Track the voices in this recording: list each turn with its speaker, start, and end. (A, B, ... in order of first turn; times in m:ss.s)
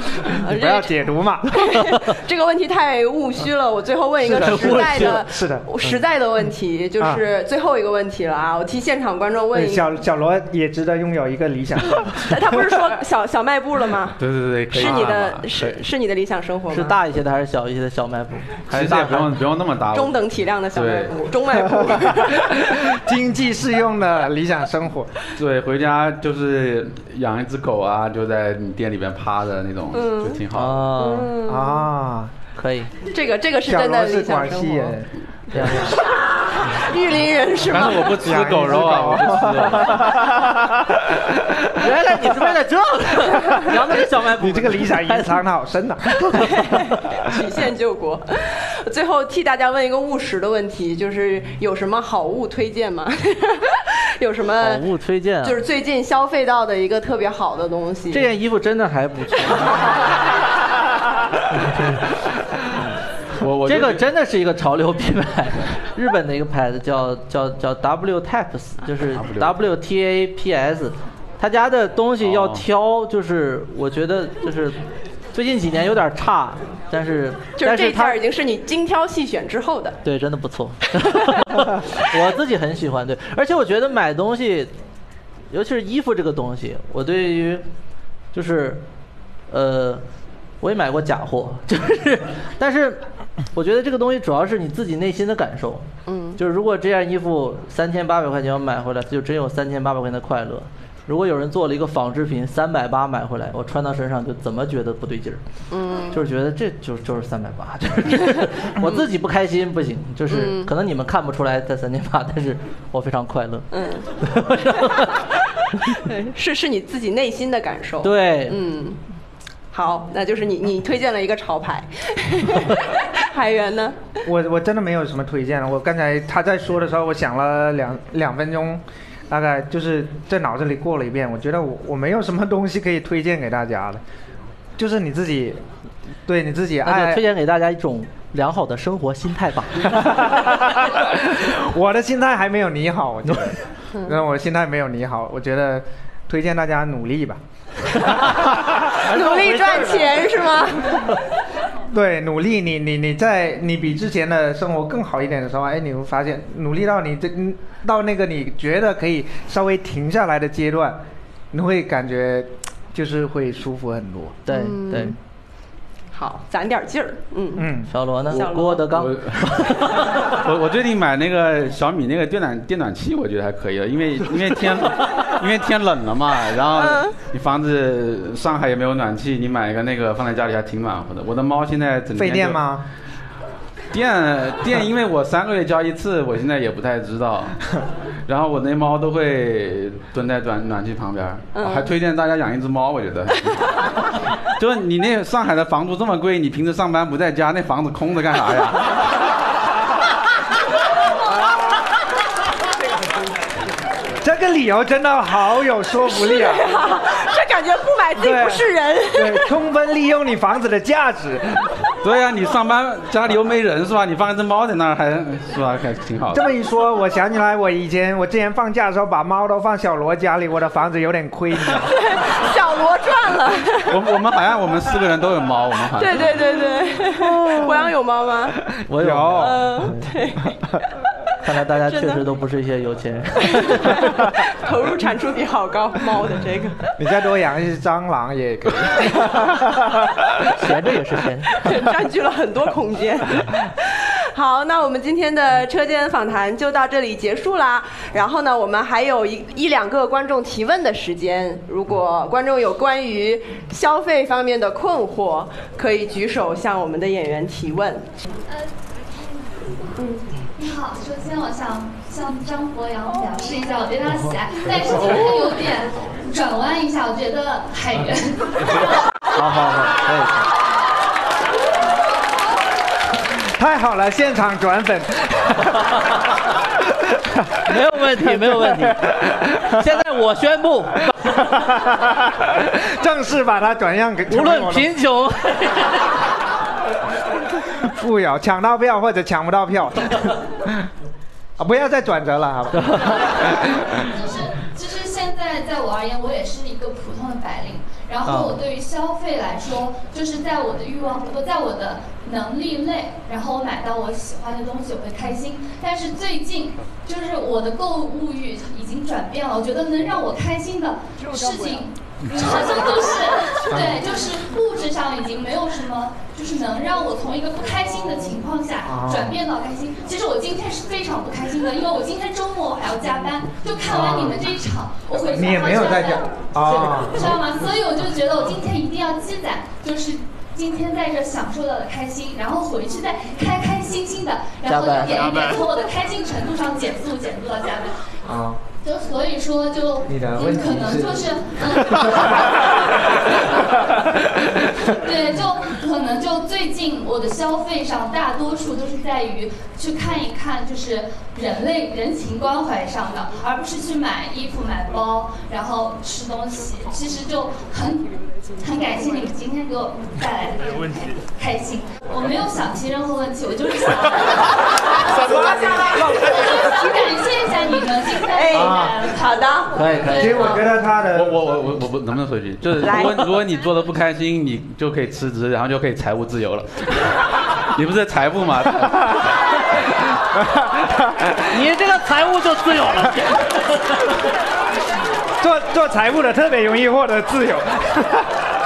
0:00.3-0:09.9 A
0:00.3-0:01.9 B
0:04.2-0:06.0 B
0:04.4-0:05.2 C
0:09.5-0:12.7 B
0:12.2-0:17.0 A
0:14.2-0:15.5 D
0:16.7-0:19.4 C
0:18.7-0:20.2 D
0:19.9-0:22.9 A
0:20.7-0:21.1 D
0:21.6-0:25.1 B
0:25.4-0:30.9 D
0:29.9-0:30.4 A
0:30.5-0:31.3 C
0:30.9-0:31.9 A
0:31.5-0:32.3 B
0:32.6-0:32.9 C
0:33.1-0:35.0 A
0:33.6-0:35.7 B
0:35.5-0:36.0 C
0:35.6-0:38.2 A
0:37.6-0:40.2 D
0:38.2-0:41.5 B
0:41.8-0:45.4 C
0:43.7-0:46.6 B
0:46.5-0:46.8 C
0:46.6-0:54.8 A
0:54.6-0:55.6 C
0:55.4-0:58.3 A
0:58.1-0:59.8 C
1:01.7-1:02.0 C
1:03.4-1:04.0 D
1:03.6-1:14.8 C
1:09.1-1:09.5 D
1:12.2-1:12.6 D
1:15.3-1:18.2 C
1:17.6-1:20.0 A
1:20.0-1:24.7 C
1:21.2-1:21.5 A
1:25.5-1:27.6 C
1:28.3-1:28.8 C
1:29.5-1:30.0 C
1:30.6-1:33.0 C
1:33.5-1:45.4 C
1:36.1-1:36.4 A
1:45.7-1:46.2 A
1:46.1-1:56.0 C
1:50.3-1:50.7 A
1:53.7-1:54.1 A
1:56.0-1:59.0 A
1:58.0-1:58.6 C
1:59.7-2:04.2 A
2:04.2-2:14.0 B
2:14.8-2:15.6 B
2:16.2-2:17.2 B
2:16.8-2:20.2 C
2:19.9-2:27.4 B
2:28.1-2:28.4 C
2:28.8-2:31.2 A
2:29.0-2:30.0 C
2:31.9-2:41.0 B
2:41.5-2:44.4 B
2:44.4-2:45.2 C
2:44.5-2:45.2 A
2:46.1-2:47.7 A
2:47.6-2:47.9 B
2:47.9-2:50.4 C
2:48.3-2:48.9 A
2:48.9-3:02.6 D
2:56.8-2:57.1 A
3:02.2-3:02.8 B
3:03.9-3:07.6 D
3:08.3-3:13.7 D
3:11.5-3:11.9 A
3:14.5-3:19.1 D
3:24.2-3:26.7 B
3:26.1-3:29.5 A
3:28.2-3:31.7 B
3:32.0-3:36.4 D
3:36.3-3:41.9 B
3:41.7-3:44.0 A
3:43.9-3:46.3 D
3:46.0-3:48.7 A
3:47.4-3:47.8 C
3:48.9-3:49.6 C
3:49.0-3:50.0 B
3:49.3-3:50.6 A
3:51.4-3:54.1 C
3:51.8-3:52.2 A
3:53.4-3:56.9 A
3:57.0-4:00.2 B
4:00.5-4:01.6 C
4:01.6-4:18.1 A
4:20.0-4:20.3 A
4:20.6-4:28.9 E
4:29.3-4:30.4 C
4:33.6-4:36.1 B
4:37.1-4:37.5 B
4:37.6-4:41.6 C
4:38.2-4:39.4 B
4:41.4-4:44.9 B
4:44.3-4:46.2 C
4:47.8-4:50.8 B
4:51.6-4:53.6 B
4:52.7-4:53.2 C
4:53.1-5:38.0 E
4:58.2-4:58.6 C
5:13.7-5:14.0 B
5:18.8-5:19.4 B
5:23.8-5:24.5 B
5:25.3-5:27.3 B
5:34.6-5:35.6 C
5:38.2-5:38.6 B
5:38.8-5:42.7 E
5:40.1-5:41.3 B
5:42.0-5:42.8 B
5:43.6-5:43.9 E
5:44.8-5:58.0 E
5:58.6-6:10.7 E
6:05.2-6:06.4 A
6:08.3-6:09.8 A
6:08.5-6:08.9 B
6:09.7-6:10.6 C
6:10.1-6:11.4 B
6:11.1-6:19.8 D
6:12.8-6:13.3 A
6:20.5-6:21.3 B
6:21.5-6:23.9 C
6:25.4-6:28.4 B